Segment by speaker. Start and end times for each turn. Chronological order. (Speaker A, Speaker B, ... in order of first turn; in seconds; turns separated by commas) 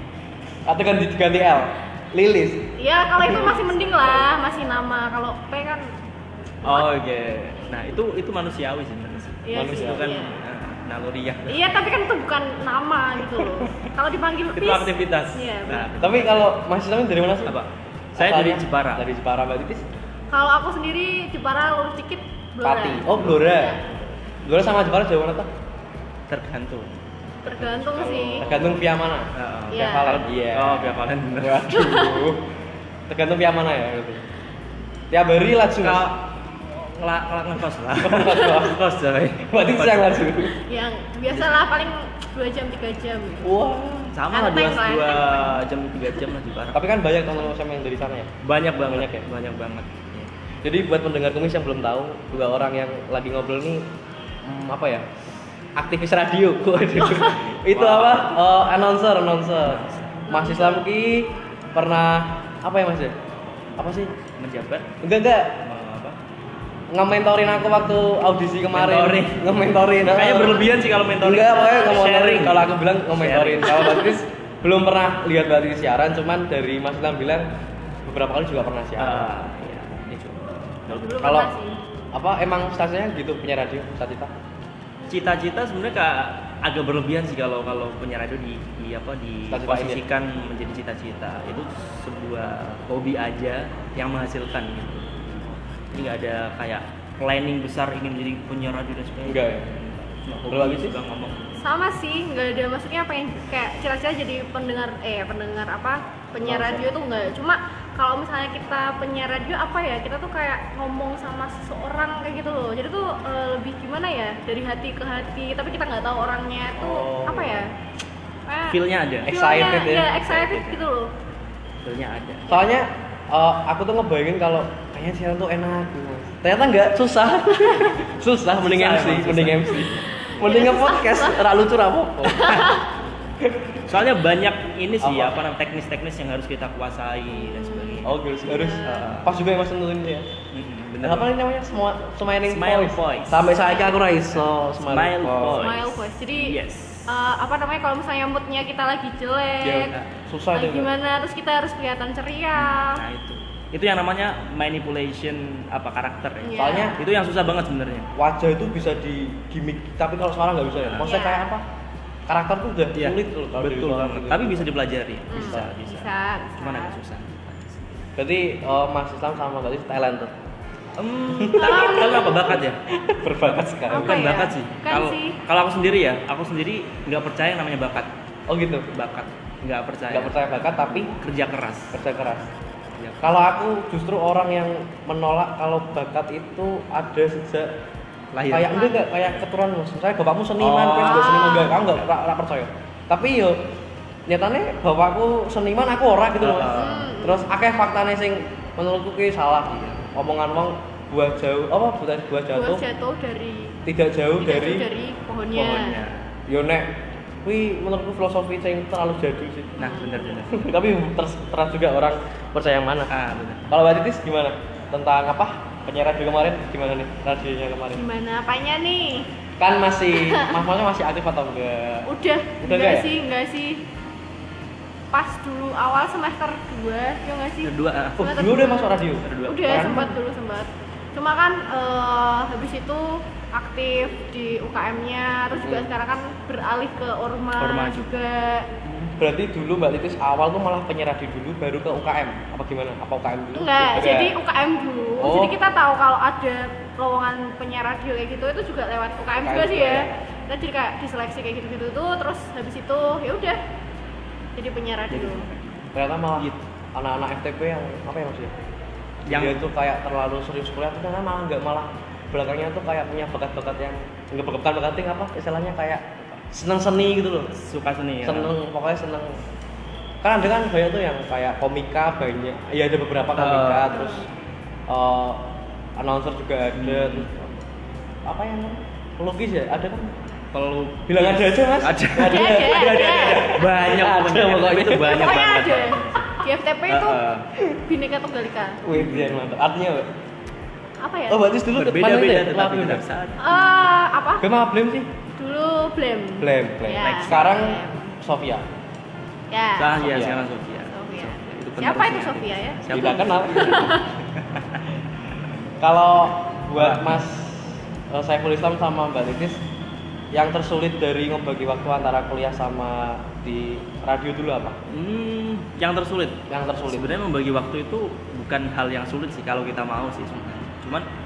Speaker A: 0.7-4.0, Speaker B: 2.8-5.9, Speaker C: 3.3-3.8, Speaker B: 6.6-6.9, Speaker C: 6.6-11.6, Speaker B: 9.4-10.4, Speaker A: 9.5-10.0, Speaker B: 11.5-15.9, Speaker C: 14.5-16.5, Speaker A: 16.0-17.6, Speaker C: 17.4-19.1, Speaker A: 18.1-19.9, Speaker B: 20.3-23.8, Speaker A: 22.6-23.8, Speaker A: 24.4-25.5, Speaker C: 26.3-28.8, Speaker B: 27.4-28.4, Speaker A: 28.3-32.5, Speaker C: 29.3-31.6, Speaker B: 29.7-30.2, Speaker B: 31.7-32.3, Speaker A: 33.1-34.2, Speaker A: 35.1-36.1, Speaker C: 35.8-40.5, Speaker A: 38.0-38.8, Speaker A: 39.5-40.5, Speaker B: 40.5-43.5, Speaker A: 43.4-44.1, Speaker C: 44.1-46.9, Speaker B: 44.3-45.5, Speaker A: 46.7-48.3, Speaker C: 48.4-50.3, Speaker A: 48.9-49.2, Speaker A: 50.6-53.9, Speaker A: 54.4-55.2, Speaker A: 55.8-63.1, Speaker C: 57.0-58.4, Speaker C: 59.6-60.2, Speaker B: 60.3-60.8, Speaker A: 63.8-64.1, Speaker C: 64.4-64.9, Speaker A: 65.0-65.7, Speaker C: 65.6-66.2, Speaker A: 66.9-77.5, Speaker C: 68.7-69.4, Speaker C: 70.1-74.0, Speaker B: 71.5-72.0, Speaker B: 73.7-74.1, Speaker A: 78.0-79.3, Speaker C: 79.0-81.2, Speaker B: 80.9-81.8, Speaker A: 81.2-81.5, Speaker A: 82.1-84.3, Speaker C: 85.1-101.5, Speaker A: 89.5-90.0, Speaker A: 99.2-99.7, Speaker A: 100.5-101.0, Speaker B: 101.6-117.7, Speaker A: 106.4-106.9, Speaker A: 116.8-117.6, Speaker B: 118.5-121.1, Speaker C: 118.7-119.3, Speaker A: 119.2-120.1, Speaker C: 119.8-120.8, Speaker C: 121.8-122.5, Speaker A: 122.5-132.6, Speaker C: 128.6-130.1, Speaker B: 130.3-131.4, Speaker B: 132.3-132.8, Speaker C: 132.4-132.8, Speaker A: 133.4-133.8, Speaker C: 133.8-138.1, Speaker A: 135.0-135.4, Speaker B: 137.3-139.1, Speaker A: 138.0-140.3, Speaker C: 138.8-139.3, Speaker C: 140.5-141.3, Speaker A: 141.0-145.7, Speaker C: 142.5-143.7, Speaker C: 144.8-147.1, Speaker B: 145.6-146.6, Speaker B: 147.1-149.9, Speaker A: 149.6-150.9, Speaker B: 150.5-153.0, Speaker C: 152.5-158.1, Speaker B: 156.4-157.0, Speaker A: 156.6-157.0, Speaker A: 158.1-161.7, Speaker C: 160.8-161.1, Speaker B: 161.0-161.5, Speaker A: 162.3-164.7, Speaker C: 162.9-168.0, Speaker B: 165.3-167.0, Speaker A: 165.3-165.7, Speaker A: 168.2-170.3, Speaker C: 171.0-172.8, Speaker A: 171.3-172.3, Speaker B: 171.6-172.4, Speaker A: 172.9-174.4, Speaker C: 173.4-178.1, Speaker B: 173.9-175.4, Speaker A: 178.5-178.9, Speaker C: 178.9-180.4, Speaker A: 180.1-181.1, Speaker C: 181.2-182.0, Speaker A: 181.9-182.5, Speaker C: 183.0-183.2, Speaker A: 183.2-187.7, Speaker C: 188.3-189.2, Speaker A: 188.5-193.6, Speaker C: 190.6-191.8, Speaker B: 191.0-191.8, Speaker A: 194.3-202.8, Speaker C: 196.4-197.1, Speaker B: 196.6-197.5, Speaker C: 199.7-200.0, Speaker B: 202.5-203.8, Speaker A: 203.8-204.9, Speaker B: 204.4-206.0, Speaker C: 205.5-206.3, Speaker A: 206.5-213.1, Speaker C: 209.8-210.7, Speaker B: 209.8-210.3, Speaker C: 213.1-213.7, Speaker A: 213.7-218.0, Speaker B: 217.9-219.3, Speaker A: 219.6-222.1, Speaker B: 220.1-220.6, Speaker B: 222.0-223.8, Speaker A: 222.6-223.1, Speaker B: 225.1-238.7, Speaker C: 227.6-228.3, Speaker A: 228.2-230.2, Speaker C: 229.2-229.9, Speaker A: 235.6-235.9, Speaker C: 237.6-238.1, Speaker A: 238.8-244.3, Speaker B: 243.5-253.6, Speaker A: 245.2-245.6, Speaker A: 249.4-250.1, Speaker B: 254.6-255.5, Speaker C: 255.1-256.6, Speaker A: 255.9-258.5, Speaker C: 259.3-259.6, Speaker A: 259.3-267.5, Speaker C: 267.5-268.5, Speaker A: 268.2-269.4, Speaker A: 270.2-274.3, Speaker C: 273.4-273.9, Speaker B: 273.9-274.2, Speaker A: 274.9-275.4, Speaker A: 275.9-277.6, Speaker C: 276.8-277.3, Speaker A: 278.2-280.1, Speaker C: 280.5-287.5, Speaker A: 281.1-285.3, Speaker B: 282.2-283.5, Speaker B: 285.0-287.2, Speaker B: 287.8-288.8, Speaker A: 288.8-290.1, Speaker C: 288.9-289.4, Speaker B: 291.0-291.5, Speaker A: 291.3-293.0, Speaker C: 291.7-293.4, Speaker B: 293.4-294.4, Speaker A: 294.4-295.1, Speaker B: 295.4-298.1, Speaker A: 296.4-298.6, Speaker C: 297.0-297.5, Speaker B: 299.5-300.1, Speaker C: 299.8-304.8, Speaker A: 300.0-300.4, Speaker B: 300.9-304.1, Speaker A: 302.9-303.9, Speaker A: 305.8-309.6, Speaker C: 306.8-307.2, Speaker A: 310.3-314.8, Speaker C: 314.9-321.1, Speaker A: 316.5-317.2